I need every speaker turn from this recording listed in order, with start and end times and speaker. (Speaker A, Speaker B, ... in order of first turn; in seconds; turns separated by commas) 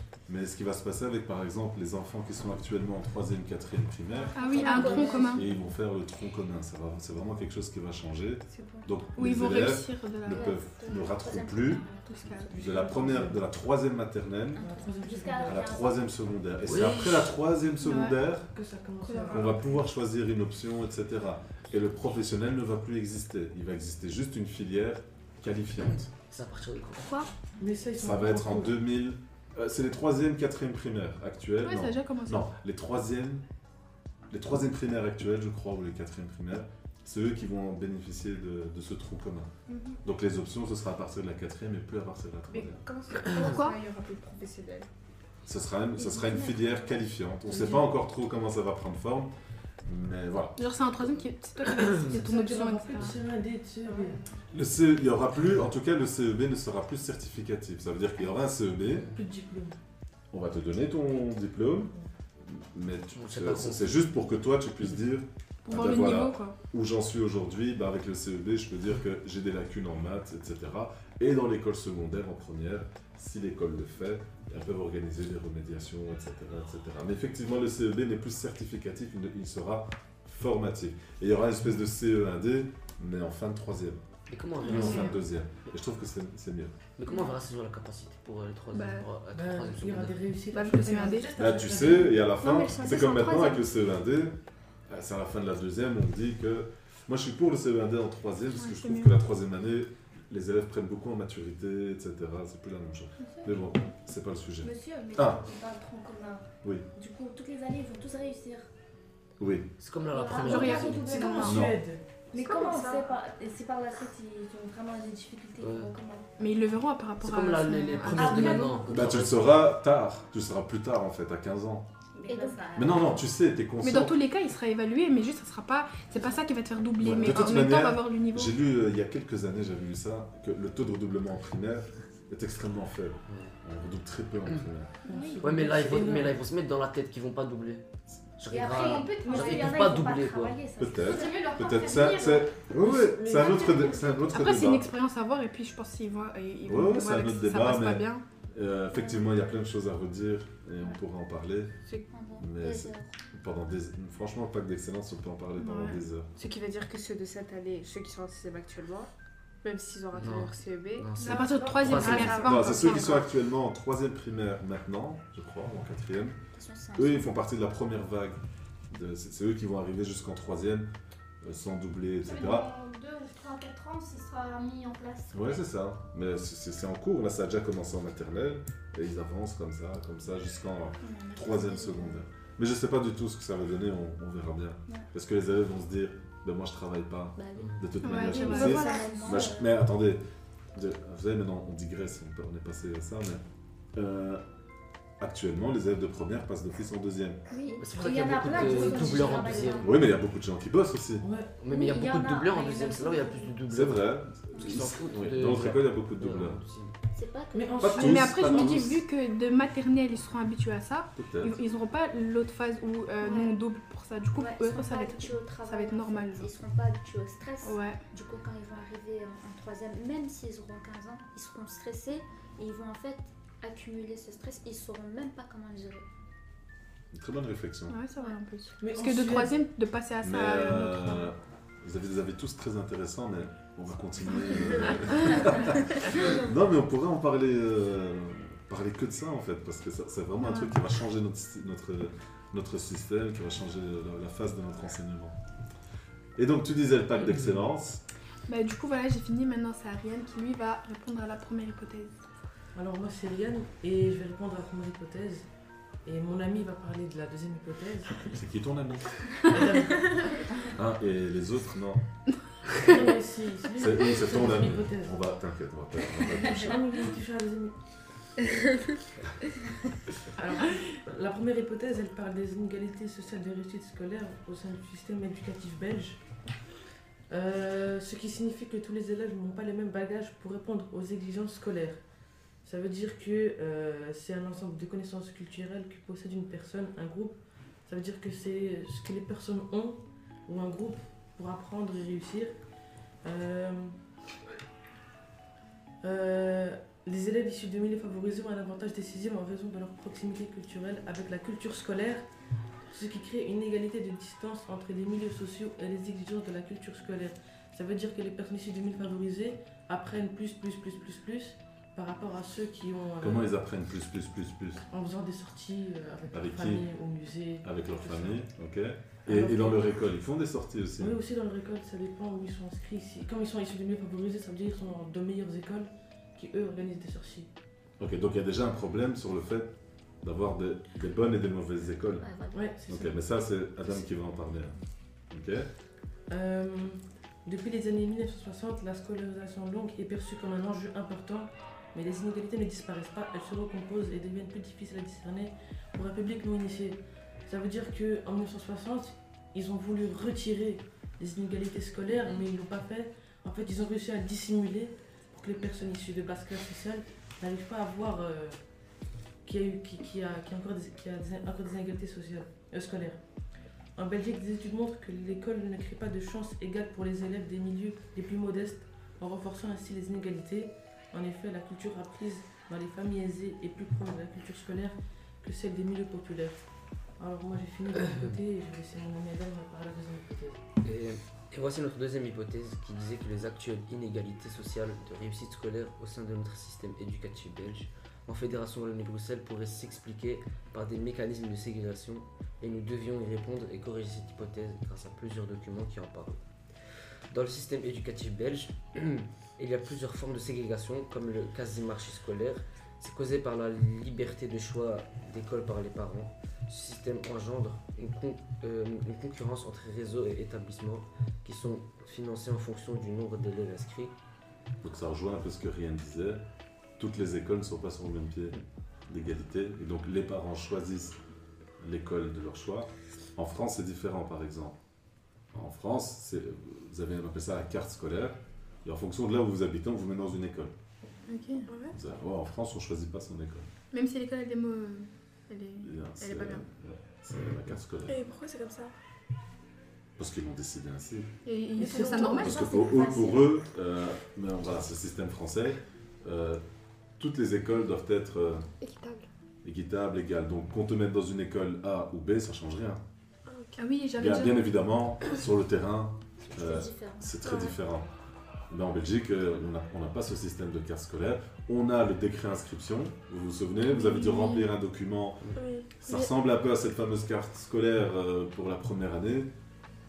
Speaker A: 0.3-11.9, Speaker B: 4.3-5.5, Speaker C: 4.4-5.4, Speaker D: 4.4-5.3, Speaker B: 9.1-10.7, Speaker C: 10.3-12.5, Speaker B: 12.0-12.5, Speaker E: 12.5-13.4, Speaker A: 12.5-14.7, Speaker C: 14.6-15.4, Speaker E: 14.6-15.7, Speaker D: 15.0-16.1, Speaker A: 15.4-18.5, Speaker F: 16.6-17.4, Speaker B: 17.8-18.2, Speaker E: 18.5-19.8, Speaker A: 19.3-26.1, Speaker F: 25.8-27.3, Speaker E: 27.6-28.8, Speaker A: 28.0-33.4, Speaker B: 31.6-32.5, Speaker A: 34.3-39.5, Speaker A: 40.0-42.8, Speaker G: 42.5-44.9, Speaker B: 43.4-43.8, Speaker A: 45.5-49.3, Speaker E: 47.5-47.9, Speaker A: 49.9-50.6, Speaker B: 50.6-53.2, Speaker E: 52.1-54.2, Speaker A: 54.5-59.1, Speaker E: 59.1-59.8, Speaker A: 60.3-84.0, Speaker F: 63.1-64.1, Speaker B: 65.7-66.6, Speaker F: 84.3-85.2, Speaker A: 84.6-86.8, Speaker F: 87.0-90.2, Speaker B: 88.7-89.1, Speaker E: 89.3-92.2, Speaker B: 90.5-91.3, Speaker A: 91.4-105.4, Speaker H: 92.4-93.6, Speaker B: 98.6-99.1, Speaker D: 103.2-103.6, Speaker D: 104.6-108.7, Speaker A: 109.4-109.7, Speaker F: 109.8-111.1, Speaker D: 110.1-111.5, Speaker B: 110.3-111.7, Speaker E: 111.0-112.0, Speaker A: 111.4-111.8, Speaker D: 112.3-116.3, Speaker H: 112.6-113.1, Speaker F: 115.6-115.9, Speaker B: 116.4-118.8, Speaker F: 117.2-119.4, Speaker D: 118.1-119.4, Speaker A: 118.9-121.9, Speaker D: 122.2-123.3, Speaker A: 122.7-124.2, Speaker B: 123.8-128.6, Speaker A: 127.0-134.9, Speaker F: 133.3-133.5, Speaker E: 135.1-136.4, Speaker I: 135.1-135.3, Speaker F: 135.4-137.8, Speaker F: 138.4-140.6, Speaker D: 138.5-141.5, Speaker I: 138.7-139.8, Speaker A: 140.8-144.9, Speaker I: 141.0-142.5, Speaker E: 142.8-143.8, Speaker I: 143.4-144.2, Speaker B: 144.2-148.2, Speaker A: 146.7-151.8, Speaker C: 148.9-149.2, Speaker C: 152.0-153.1, Speaker A: 152.4-156.3, Speaker B: 155.6-156.0, Speaker G: 156.4-159.1, Speaker G: 159.6-163.2, Speaker F: 160.1-162.4, Speaker B: 161.2-163.2, Speaker A: 162.3-166.4, Speaker C: 166.5-167.3, Speaker A: 167.0-168.4, Speaker A: 168.9-170.9, Speaker A: 171.4-172.7, Speaker I: 172.2-175.6, Speaker A: 175.3-193.4, Speaker C: 181.0-182.2, Speaker C: 187.4-189.8, Speaker F: 187.6-187.8, Speaker B: 188.0-189.4, Speaker A: 193.9-194.4, Speaker A: 195.2-197.4, Speaker D: 197.5-199.8, Speaker C: 197.8-199.9, Speaker F: 197.8-199.9, Speaker A: 199.8-201.2, Speaker E: 201.2-201.6, Speaker F: 201.6-206.9, Speaker D: 201.7-203.6, Speaker A: 203.7-206.6, Speaker C: 207.2-208.0, Speaker E: 207.5-208.3, Speaker A: 207.8-209.0, Speaker B: 207.9-216.5, Speaker A: 211.2-211.6, Speaker C: 213.2-213.6, Speaker C: 214.3-226.1, Speaker B: 217.6-218.0, Speaker A: 227.1-228.0, Speaker B: 227.9-231.3, Speaker E: 228.8-229.6, Speaker A: 230.2-245.4, Speaker A: 246.4-248.0, Speaker B: 248.5-252.2, Speaker E: 252.8-255.5, Speaker E: 256.1-258.3, Speaker A: 258.3-259.3, Speaker E: 259.5-260.5, Speaker A: 260.7-262.0, Speaker E: 262.8-265.2, Speaker A: 263.8-266.8, Speaker E: 266.2-267.8, Speaker E: 270.4-276.2, Speaker E: 277.3-282.0, Speaker E: 282.6-292.6, Speaker E: 293.2-294.0, Speaker E: 296.0-302.3, Speaker E: 302.9-313.5, Speaker A: 313.2-314.8, Speaker E: 314.9-318.4, Speaker A: 316.3-316.9, Speaker A: 317.6-321.2, Speaker E: 319.2-319.9, Speaker E: 321.0-327.5, Speaker A: 328.0-332.3, Speaker C: 332.2-332.8, Speaker E: 332.5-333.2, Speaker A: 332.9-334.8, Speaker A: 335.3-335.7, Speaker E: 336.3-358.6, Speaker E: 359.4-363.2, Speaker E: 364.0-376.7, Speaker E: 377.2-380.6, Speaker F: 378.0-378.4, Speaker F: 380.8-396.4, Speaker F: 397.3-414.2, Speaker A: 414.8-416.4, Speaker A: 417.0-418.6, Speaker A: 419.1-421.2, Speaker A: 421.8-424.8, Speaker A: 425.5-430.7, Speaker B: 431.3-431.7, Speaker A: 431.9-433.7, Speaker B: 433.9-436.6, Speaker A: 435.8-438.2, Speaker H: 438.1-438.9, Speaker A: 440.2-441.3, Speaker B: 441.5-442.6, Speaker E: 441.8-442.4, Speaker H: 441.8-442.5, Speaker A: 442.4-446.6, Speaker D: 442.9-443.4, Speaker A: 447.2-448.7, Speaker A: 449.6-453.0, Speaker H: 453.5-453.7, Speaker B: 453.8-454.7, Speaker A: 454.2-458.1, Speaker C: 456.6-457.4, Speaker H: 457.4-457.8, Speaker A: 458.7-469.5, Speaker H: 465.6-466.3